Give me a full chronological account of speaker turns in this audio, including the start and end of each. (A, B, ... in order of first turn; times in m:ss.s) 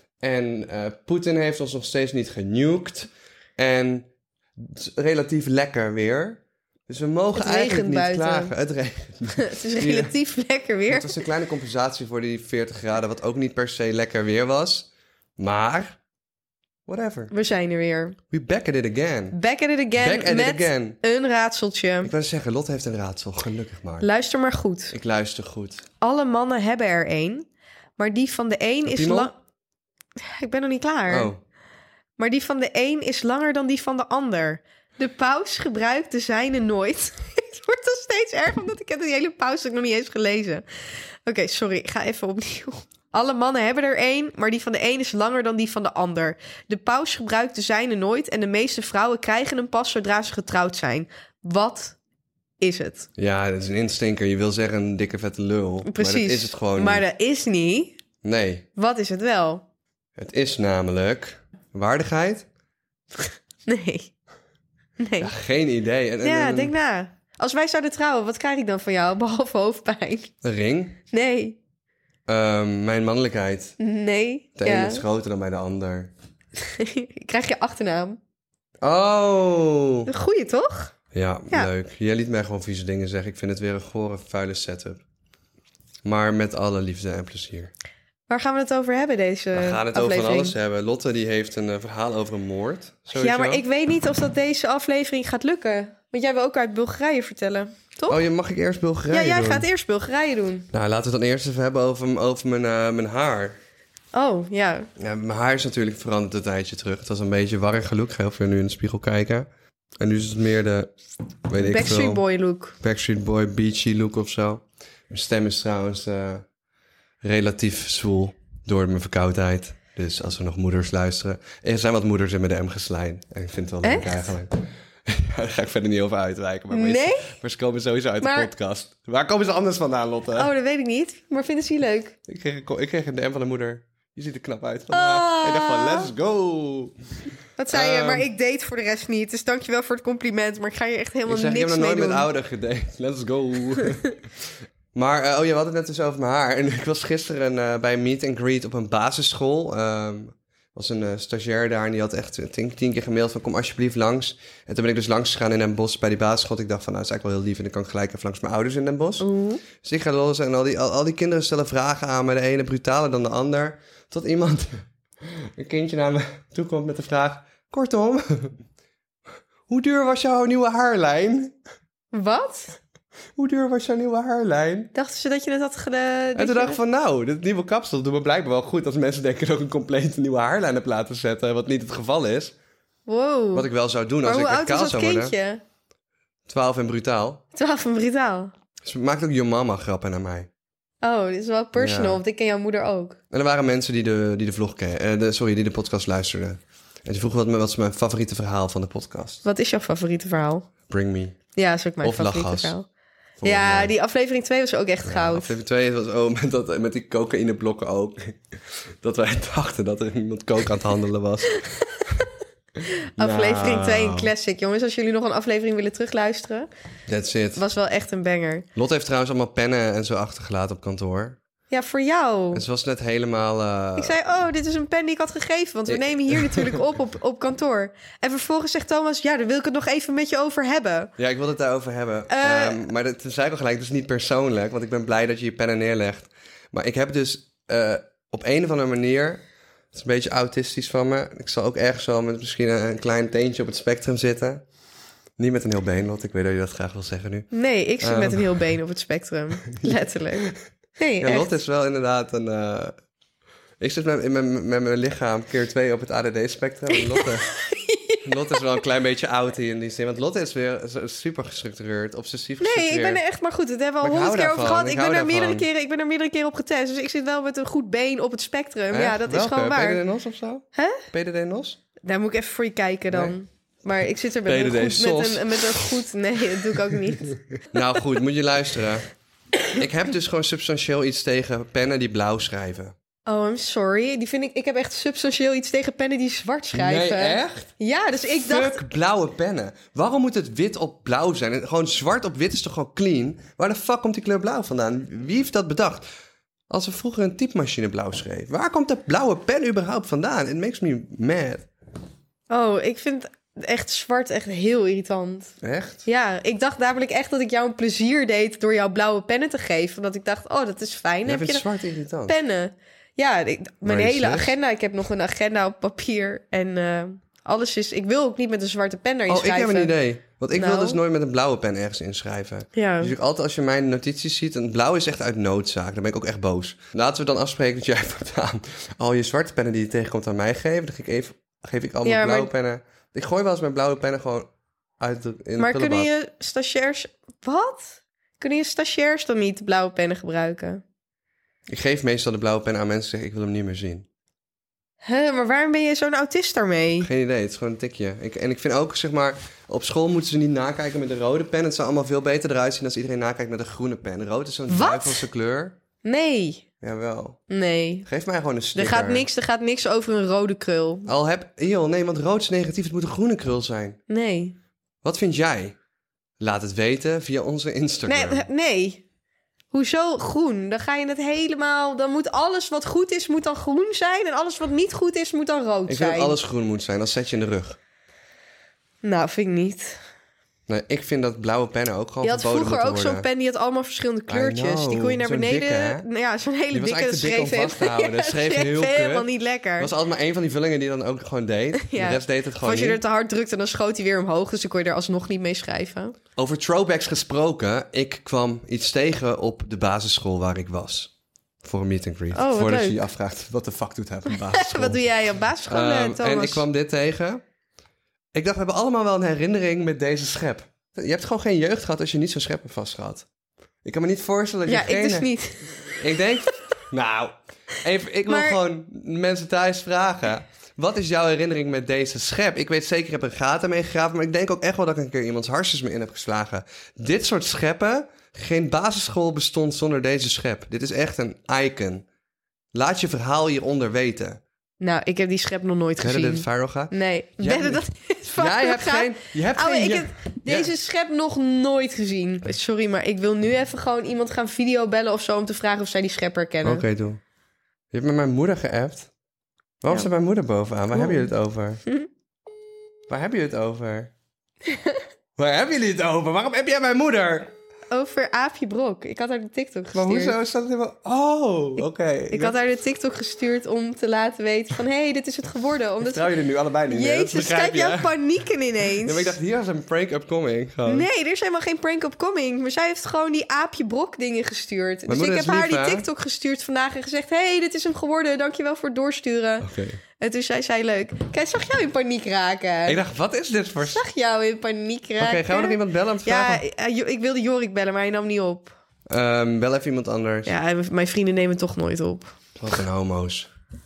0:00.2-0:04.1 A
0:04.6-0:10.1 A
0:07.4-0:08.5 B
0:09.4-0:11.2 B
0:10.9-0:16.0 A
0:16.9-0:17.3 A
0:17.3-0:18.2 B
0:18.3-0:19.4 A
0:19.3-0:22.1 B
0:20.0-0:21.0 A
0:22.0-0:24.1 A
0:24.0-0:24.9 B
0:24.9-0:25.8 A
0:26.0-0:29.3 B
0:28.8-0:29.3 A
0:30.2-0:31.3 B
0:31.1-0:31.4 A
0:32.2-0:52.0 B
0:52.6-0:53.1 B
0:53.2-0:57.0 A
0:55.8-0:58.0 B
0:58.2-0:58.6 A
0:58.8-0:59.6 B
1:00.2-1:02.5 A
1:03.2-1:04.1 B
1:05.0-1:05.3 B
1:05.2-1:06.7 A
1:06.2-1:10.3 B
1:10.4-1:11.0 A
1:11.1-1:11.6 B
1:12.3-1:13.8 A
1:13.8-1:15.0 B
1:14.6-1:16.1 A
1:16.6-1:18.2 B
1:18.8-1:20.1 A
1:20.1-1:20.9 B
1:21.1-1:25.0 A
1:26.0-1:27.7 A
1:28.3-1:30.5 B
1:29.5-1:33.6 A
1:33.1-1:38.2 B
1:38.1-1:39.6 A
1:39.1-1:40.7 B
1:40.7-1:43.6 A
1:44.1-1:44.9 B
1:45.0-1:49.5 A
1:50.0-1:50.9 A
1:51.5-1:52.2 A
1:51.6-1:52.8 B
1:52.8-1:56.4 A
1:57.2-2:10.5 A
2:03.8-2:04.3 B
2:06.7-2:07.3 B
2:08.2-2:08.5 B
2:10.4-2:12.2 B
2:12.3-2:16.9 A
2:14.9-2:16.1 B
2:17.6-2:22.3 B
2:17.7-2:18.3 A
2:21.3-2:24.2 A
2:24.9-2:39.3 A
2:39.2-2:39.6 B
2:39.8-2:48.6 A
2:49.7-2:51.5 A
2:52.1-2:52.7 B
2:53.4-2:54.9 A
2:54.9-2:56.8 B
2:56.3-3:02.5 A
3:03.0-3:03.7 B
3:03.5-3:05.3 A
3:04.2-3:05.6 B
3:06.5-3:07.4 A
3:07.5-3:08.5 B
3:08.8-3:10.5 A
3:11.0-3:13.2 B
3:11.8-3:12.2 A
3:13.3-3:19.4 A
3:19.4-3:20.7 B
3:20.9-3:21.4 A
3:21.5-3:22.9 B
3:22.0-3:22.8 A
3:23.4-3:23.9 A
3:23.4-3:25.5 B
3:25.0-3:28.4 A
3:29.0-3:31.6 A
3:33.2-3:34.3 A
3:33.2-3:36.7 B
3:37.1-3:37.6 A
3:37.6-3:38.6 B
3:38.7-3:41.4 A
3:41.7-3:42.6 B
3:42.5-3:44.2 A
3:44.0-3:51.1 B
3:45.9-3:46.8 A
3:51.2-4:04.6 A
3:52.3-3:52.8 B
4:05.4-4:07.5 A
4:07.5-4:11.5 B
4:08.0-4:08.4 A
4:09.7-4:10.6 A
4:11.2-4:12.9 A
4:13.8-4:17.5 A
4:16.9-4:18.6 B
4:18.2-4:23.2 A
4:22.6-4:30.0 B
4:24.0-4:25.6 A
4:28.9-4:31.8 A
4:30.7-4:31.0 B
4:32.0-4:37.3 B
4:34.4-4:36.0 A
4:36.9-4:39.1 A
4:39.7-4:42.9 A
4:43.2-4:48.8 B
4:46.7-4:47.7 A
4:48.4-4:56.0 A
4:56.7-5:01.7 A
5:02.5-5:05.5 B
5:05.6-5:06.0 A
5:06.0-5:11.6 B
5:11.2-5:12.3 A
5:12.3-5:19.9 B
5:13.8-5:14.5 A
5:19.3-5:34.5 A
5:20.5-5:21.0 B
5:22.7-5:23.1 B
5:32.0-5:32.5 B
5:35.0-5:36.1 A
5:35.6-5:40.8 B
5:41.7-5:44.0 A
5:45.0-5:47.1 B
5:47.0-5:55.8 A
5:54.7-5:55.3 B
5:56.0-5:56.6 B
5:56.8-5:57.4 A
5:57.5-5:58.1 B
5:58.0-5:59.3 A
5:58.7-6:01.1 B
6:01.0-6:04.0 A
6:04.1-6:04.5 B
6:05.0-6:05.8 A
6:06.4-6:08.4 A
6:08.1-6:09.0 B
6:09.7-6:16.3 B
6:15.9-6:17.8 A
6:19.0-6:20.0 B
6:20.7-6:23.3 A
6:22.2-6:29.9 B
6:24.3-6:26.0 A
6:26.7-6:33.0 A
6:31.8-6:36.2 B
6:36.4-6:41.1 A
6:41.6-6:45.0 A
6:42.3-6:43.0 B
6:44.3-6:46.6 B
6:45.7-6:47.4 A
6:48.3-6:53.2 A
6:53.8-6:55.3 A
6:54.7-6:56.0 B
6:55.8-7:12.0 A
6:58.3-6:58.6 B
7:12.7-7:14.4 A
7:14.8-7:26.8 B
7:16.0-7:20.7 A
7:26.6-7:27.2 A
7:27.9-7:29.1 A
7:29.8-7:31.8 A
7:30.9-7:31.3 B
7:33.1-7:34.1 A
7:34.6-7:35.0 B
7:35.4-7:37.5 A
7:37.9-7:40.4 B
7:39.9-7:42.6 A
7:42.3-7:46.3 B
7:46.0-7:48.1 A
7:46.9-7:49.3 B
7:49.0-7:51.1 A
7:50.8-8:03.0 B
7:55.1-7:56.1 A
7:59.6-8:00.0 A
8:02.8-8:04.0 A
8:03.9-8:08.7 B
8:05.2-8:06.6 A
8:09.1-8:10.5 A
8:10.4-8:12.3 B
8:12.6-8:13.5 A